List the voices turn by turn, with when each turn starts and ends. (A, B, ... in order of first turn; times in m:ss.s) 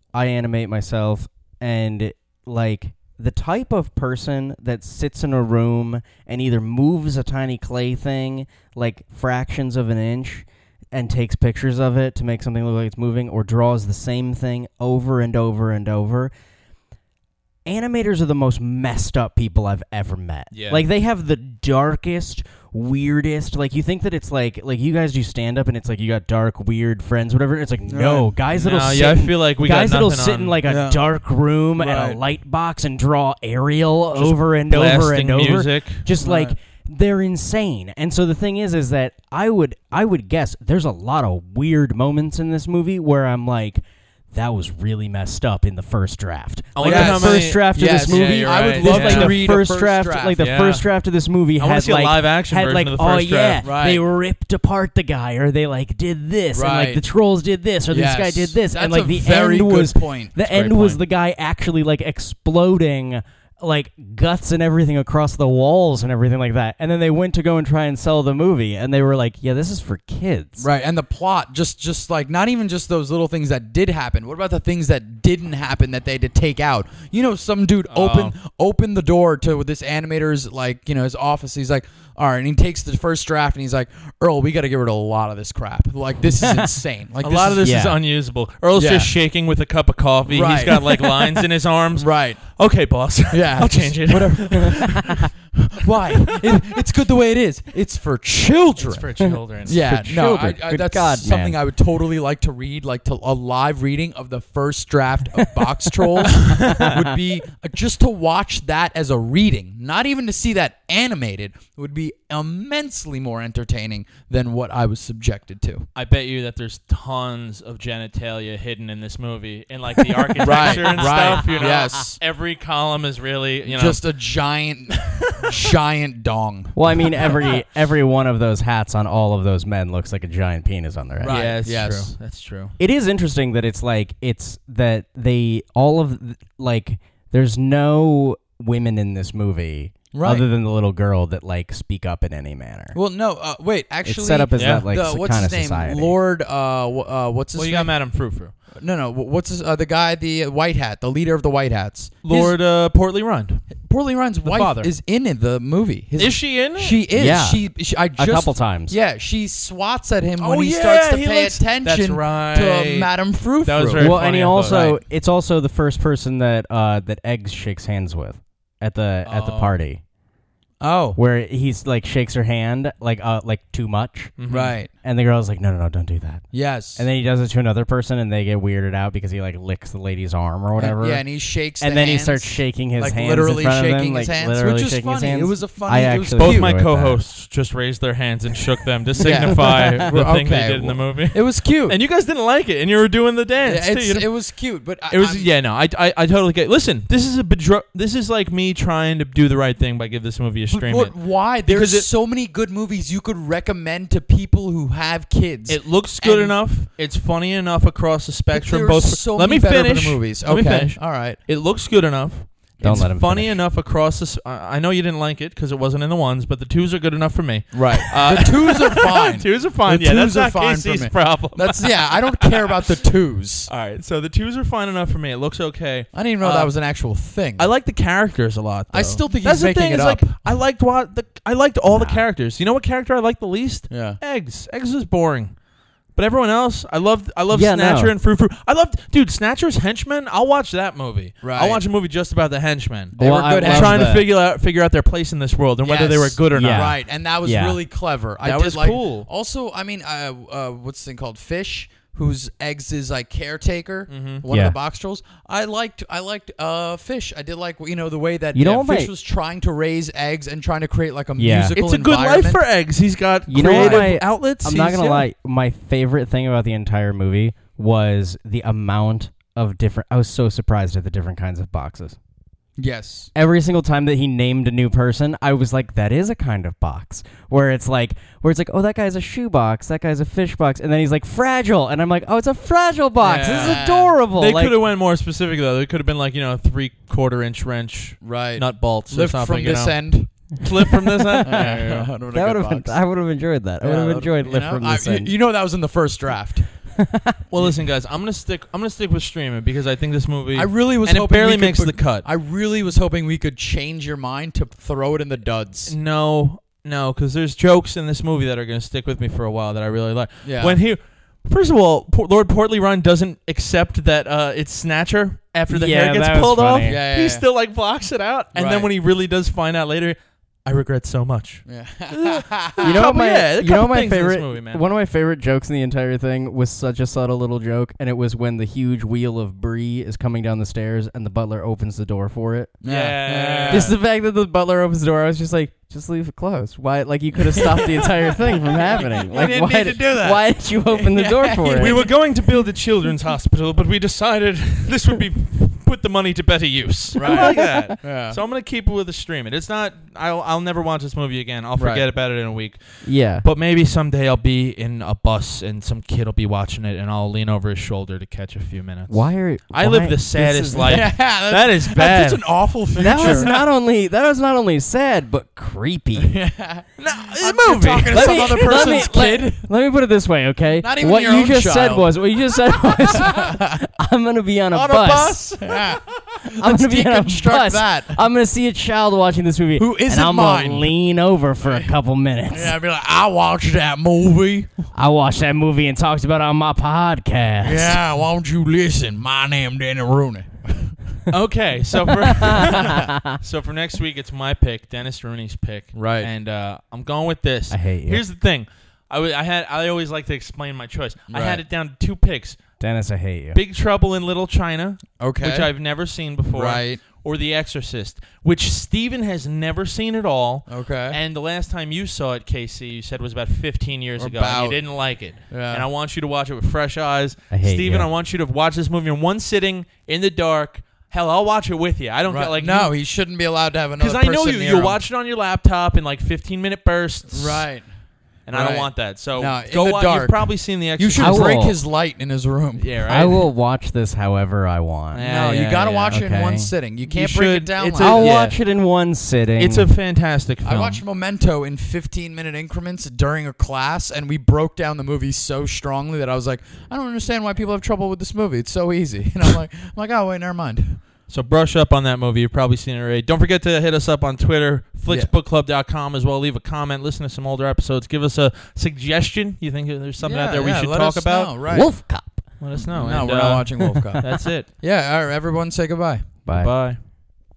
0:00.1-0:16.3 A
0:17.6-1:10.7 A
0:20.5-0:20.8 B
0:27.9-0:28.3 C
0:28.5-0:30.6 B
0:30.6-0:31.0 C
0:31.8-0:32.2 C
0:34.1-0:36.0 B
0:36.2-0:36.5 C
0:46.7-0:49.5 B
0:46.8-0:50.4 C
0:50.4-0:50.9 B
0:51.6-0:53.6 B
0:53.6-0:54.0 C
0:56.5-0:57.0 C
0:57.9-1:00.3 C
1:00.5-1:01.0 B
1:10.6-1:27.7 C
1:17.9-1:18.3 B
1:27.2-1:35.2 B
1:27.6-1:28.0 A
1:28.7-1:29.1 C
1:30.3-1:32.4 C
1:33.3-1:39.1 C
1:38.8-1:39.9 B
1:39.2-1:41.6 A
1:39.6-1:55.9 C
1:46.2-1:47.1 A
1:46.6-1:46.8 B
1:56.0-2:04.0 B
2:00.4-2:02.2 C
2:03.6-2:07.3 C
2:06.7-2:11.4 A
2:11.2-2:12.1 C
2:11.2-2:12.7 B
2:12.8-2:23.0 A
2:20.1-2:20.5 C
2:22.9-2:27.9 C
2:24.0-2:26.1 A
2:24.5-2:24.8 B
2:27.5-2:28.5 B
2:28.8-2:32.6 C
2:32.2-2:33.7 B
2:33.8-2:44.1 C
2:34.4-2:34.9 B
2:36.2-2:37.0 B
2:37.1-2:37.6 A
2:38.2-2:38.9 A
2:40.4-2:43.1 B
2:43.6-2:44.9 B
2:44.0-2:50.0 A
2:44.6-2:45.0 C
2:49.3-2:49.7 B
2:50.8-2:51.2 C
2:51.2-2:54.3 A
2:54.4-2:54.7 B
2:54.5-2:54.9 C
2:55.0-3:01.2 A
2:56.5-2:57.1 C
3:00.8-3:06.7 C
3:01.8-3:07.2 A
3:06.4-3:14.3 B
3:09.2-3:12.0 C
3:09.2-3:09.8 A
3:13.6-3:15.5 C
3:15.1-3:22.1 B
3:20.7-3:26.6 C
3:25.7-3:42.7 B
3:28.5-3:31.4 C
3:32.8-3:33.6 A
3:37.7-3:43.7 C
3:43.7-3:46.7 B
3:46.1-3:47.7 C
3:47.6-3:55.5 B
3:48.9-3:50.4 C
3:51.8-3:52.2 A
3:53.9-3:54.2 C
3:56.1-4:07.0 B
3:57.5-3:58.1 A
4:01.4-4:01.8 C
4:03.2-4:04.2 C
4:03.2-4:04.2 A
4:05.8-4:22.6 C
4:06.5-4:07.8 A
4:08.4-4:09.3 B
4:14.1-4:14.4 B
4:14.5-4:14.8 A
4:18.5-4:19.1 A
4:21.4-4:21.7 A
4:21.7-4:25.2 B
4:23.5-4:32.2 A
4:23.6-4:24.1 C
4:32.8-4:33.3 C
4:33.3-4:44.8 A
4:43.2-4:44.1 C
4:43.4-4:43.8 B
4:44.4-4:52.1 B
4:48.2-4:50.3 C
4:51.2-4:51.7 A
4:51.4-4:53.0 C
4:52.3-4:55.3 A
4:53.8-4:56.7 C
4:57.0-4:57.4 A
4:57.5-5:02.2 B
5:00.5-5:05.9 C
5:05.8-5:24.8 B
5:10.4-5:10.8 C
5:15.7-5:17.0 A
5:16.8-5:17.4 C
5:18.5-5:18.9 C
5:21.6-5:23.0 C
5:22.8-5:32.7 A
5:32.8-5:34.0 C
5:32.8-5:33.9 B
5:33.7-5:42.0 A
5:37.5-5:42.1 C
5:41.7-6:03.6 B
5:47.1-5:48.4 C
5:47.2-5:47.9 A
5:51.8-5:52.0 C
5:53.0-5:53.4 A
5:59.1-6:01.1 A
6:00.8-6:03.5 C
6:03.0-6:06.4 A
6:06.2-6:09.6 C
6:07.0-6:09.1 B
6:08.1-6:15.4 A
6:10.8-6:12.1 C
6:13.1-6:13.7 C
6:14.7-6:16.2 B
6:15.6-6:18.2 C
6:16.5-6:22.8 A
6:19.8-6:20.9 C
6:22.5-6:24.7 C
6:24.9-6:28.0 A
6:27.6-6:31.0 C
6:31.3-6:42.6 B
6:32.3-6:33.3 A
6:32.6-6:33.0 C
6:35.9-6:36.3 C
6:37.7-6:38.2 A
6:41.3-6:41.6 C
6:42.8-6:43.6 A
6:43.5-7:02.9 B
6:45.2-6:45.7 C
6:46.5-6:47.0 C
6:50.7-6:51.2 C
6:54.2-6:54.8 C
6:55.5-6:55.8 C
6:57.5-6:58.1 A
7:02.3-7:05.0 C
7:04.0-7:07.7 B
7:07.3-7:07.8 C
7:08.5-7:11.6 B
7:08.5-7:12.8 C
7:11.2-7:11.8 A
7:12.8-7:13.4 B
7:13.0-7:15.3 A
7:15.1-7:16.1 B
7:15.3-7:18.4 C
7:16.1-7:16.7 A
7:17.0-7:18.6 B
7:18.0-7:19.9 A
7:19.6-7:21.0 B
7:20.6-7:31.0 C
7:31.3-7:41.5 B
7:40.2-7:41.9 C
7:41.7-7:42.4 A
7:42.6-7:44.7 B
7:42.8-7:44.2 C
7:44.8-7:46.2 C
7:46.4-7:46.7 A
7:46.5-7:47.0 B